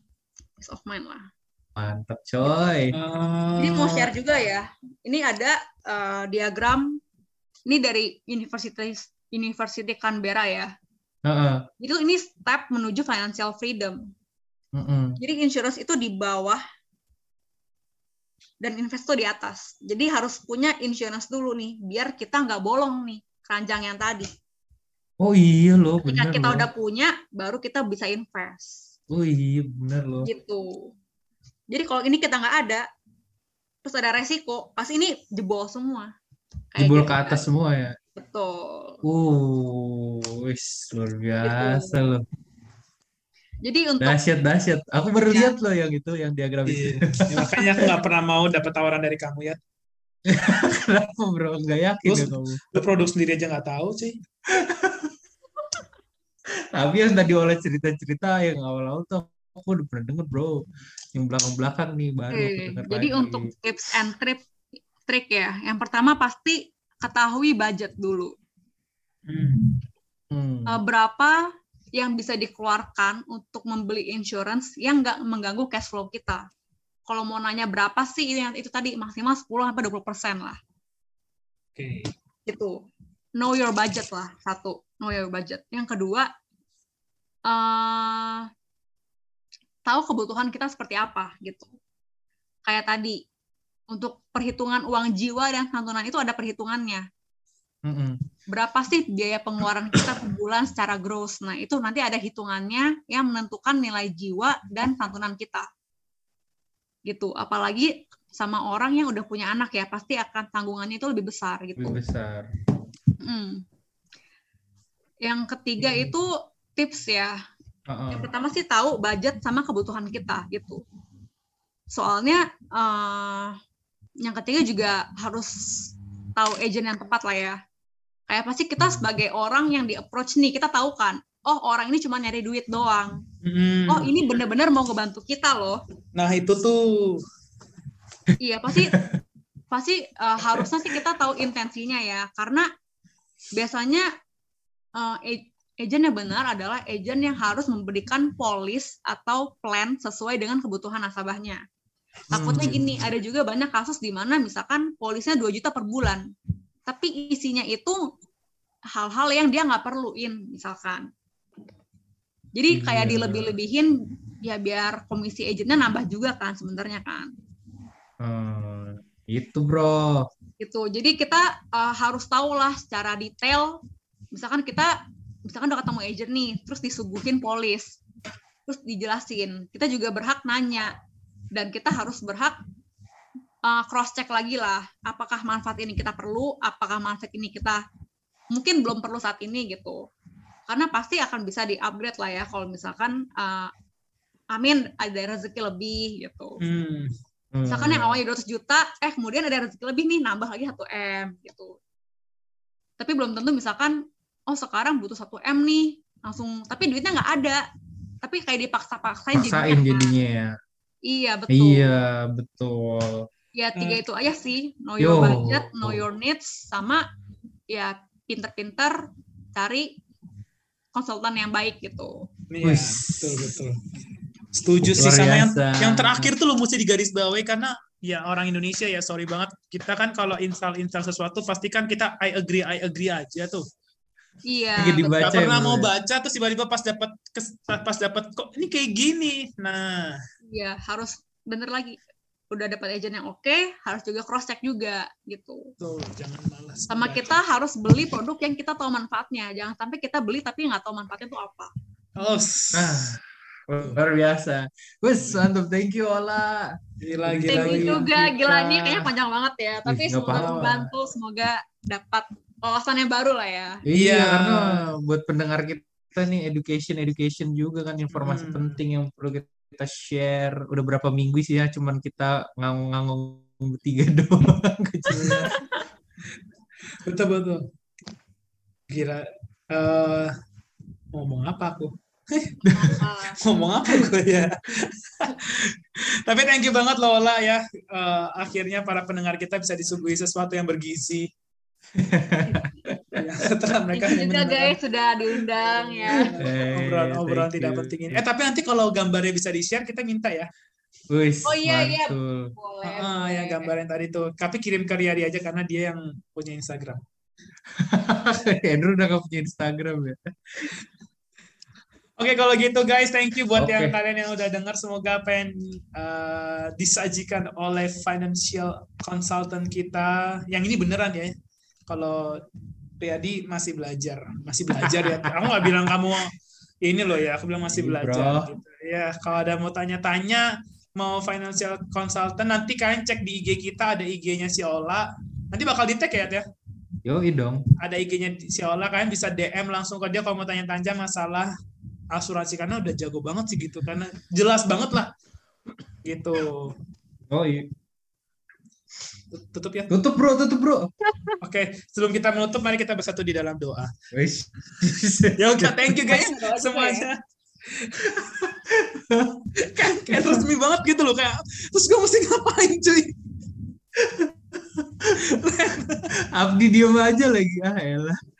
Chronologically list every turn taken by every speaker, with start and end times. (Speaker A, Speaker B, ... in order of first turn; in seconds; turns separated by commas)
Speaker A: 0.6-1.3, Speaker B: 1.8-2.9, Speaker C: 2.9-4.1, Speaker A: 3.6-7.0, Speaker A: 7.7-10.7, Speaker B: 11.2-11.7, Speaker A: 11.8-14.0, Speaker B: 14.7-15.2, Speaker A: 15.2-16.6, Speaker A: 18.6-24.3, Speaker B: 25.2-26.7, Speaker A: 26.0-28.9, Speaker B: 29.1-30.3, Speaker A: 30.2-30.9, Speaker A: 31.7-32.9, Speaker A: 33.8-36.1, Speaker A: 36.7-37.4, Speaker B: 36.8-38.0, Speaker A: 38.1-39.0, Speaker B: 39.0-42.2, Speaker A: 41.4-42.0, Speaker A: 43.6-44.2, Speaker B: 44.0-47.9, Speaker A: 45.2-45.5, Speaker C: 46.7-49.6, Speaker B: 50.2-52.6, Speaker C: 52.0-54.2, Speaker B: 54.5-55.1, Speaker B: 56.7-60.6, Speaker B: 61.1-63.5, Speaker A: 62.3-64.4, Speaker A: 65.1-68.3, Speaker C: 69.3-69.8, Speaker B: 70.3-70.8, Speaker A: 70.7-71.4, Speaker A: 71.9-76.5, Speaker A: 77.1-80.6, Speaker C: 81.8-82.1, Speaker A: 82.5-82.8, Speaker A: 83.4-86.3, Speaker A: 87.5-88.5, Speaker A: 89.8-91.7, Speaker A: 92.7-93.2, Speaker A: 93.9-97.0, Speaker B: 97.8-98.2, Speaker A: 98.5-105.7, Speaker A: 107.1-112.0, Speaker B: 111.8-112.5, Speaker A: 113.2-113.6, Speaker A: 115.2-117.3, Speaker B: 117.9-118.3, Speaker A: 118.1-120.8, Speaker A: 121.9-123.6, Speaker A: 124.2-127.6, Speaker A: 128.3-133.2, Speaker C: 133.4-134.1, Speaker A: 133.9-135.8, Speaker C: 136.1-137.2, Speaker A: 138.4-138.9, Speaker A: 139.7-142.7, Speaker A: 143.5-144.1, Speaker A: 145.0-151.6, Speaker A: 152.3-156.3, Speaker B: 152.3-153.0, Speaker C: 152.5-152.8, Speaker A: 156.9-158.0, Speaker A: 158.9-161.1, Speaker A: 162.6-167.3, Speaker B: 162.7-163.5, Speaker B: 168.2-170.3, Speaker A: 170.6-173.8, Speaker A: 174.3-177.9, Speaker A: 178.7-180.9, Speaker A: 181.5-182.6, Speaker A: 183.6-187.8, Speaker A: 188.5-190.0, Speaker A: 190.7-193.7, Speaker A: 194.5-196.6, Speaker C: 196.6-197.1, Speaker B: 197.5-198.2, Speaker A: 197.7-201.8, Speaker A: 203.0-207.6, Speaker A: 208.2-210.1, Speaker B: 209.3-210.6, Speaker A: 211.1-211.9, Speaker B: 211.5-213.3, Speaker A: 213.5-217.0, Speaker B: 215.0-216.0, Speaker A: 217.7-219.9, Speaker A: 220.9-222.3, Speaker C: 222.5-223.9, Speaker B: 222.6-223.5, Speaker C: 224.5-233.6, Speaker B: 224.9-226.3, Speaker A: 234.4-235.2, Speaker B: 234.8-235.9, Speaker C: 235.2-240.2, Speaker A: 240.5-242.0, Speaker A: 242.5-245.7, Speaker C: 245.8-247.4, Speaker A: 246.9-251.7, Speaker C: 252.2-253.1, Speaker B: 252.7-259.0, Speaker C: 257.0-258.3, Speaker A: 257.5-263.8, Speaker B: 259.8-260.9, Speaker C: 260.3-260.7, Speaker B: 263.9-275.5, Speaker C: 263.9-264.9, Speaker C: 268.1-268.8, Speaker C: 275.1-275.5, Speaker A: 275.5-275.8, Speaker C: 277.0-277.6, Speaker C: 278.9-280.3, Speaker C: 281.1-282.8, Speaker A: 282.6-283.4, Speaker C: 283.4-291.3, Speaker B: 292.0-293.2, Speaker A: 292.5-292.8, Speaker C: 293.1-294.8, Speaker A: 293.9-296.4, Speaker C: 295.6-300.5, Speaker B: 296.2-298.2, Speaker B: 301.1-302.5, Speaker A: 301.4-303.7, Speaker C: 302.8-307.0, Speaker B: 307.8-310.2, Speaker C: 312.2-321.3, Speaker B: 313.6-313.9, Speaker C: 321.9-322.4, Speaker C: 323.0-326.3, Speaker B: 324.7-325.7, Speaker C: 326.8-336.4, Speaker B: 327.7-328.5, Speaker B: 337.0-337.6, Speaker C: 337.8-341.5, Speaker C: 342.1-345.1, Speaker C: 346.0-346.7, Speaker B: 347.3-347.7, Speaker C: 349.3-350.0, Speaker B: 349.9-350.9, Speaker C: 351.4-353.9, Speaker B: 354.1-356.0, Speaker C: 355.4-358.5, Speaker A: 356.1-357.1, Speaker B: 358.2-359.4, Speaker C: 359.6-363.1, Speaker B: 360.1-360.4, Speaker B: 364.0-365.3, Speaker C: 365.1-366.1, Speaker B: 366.2-368.2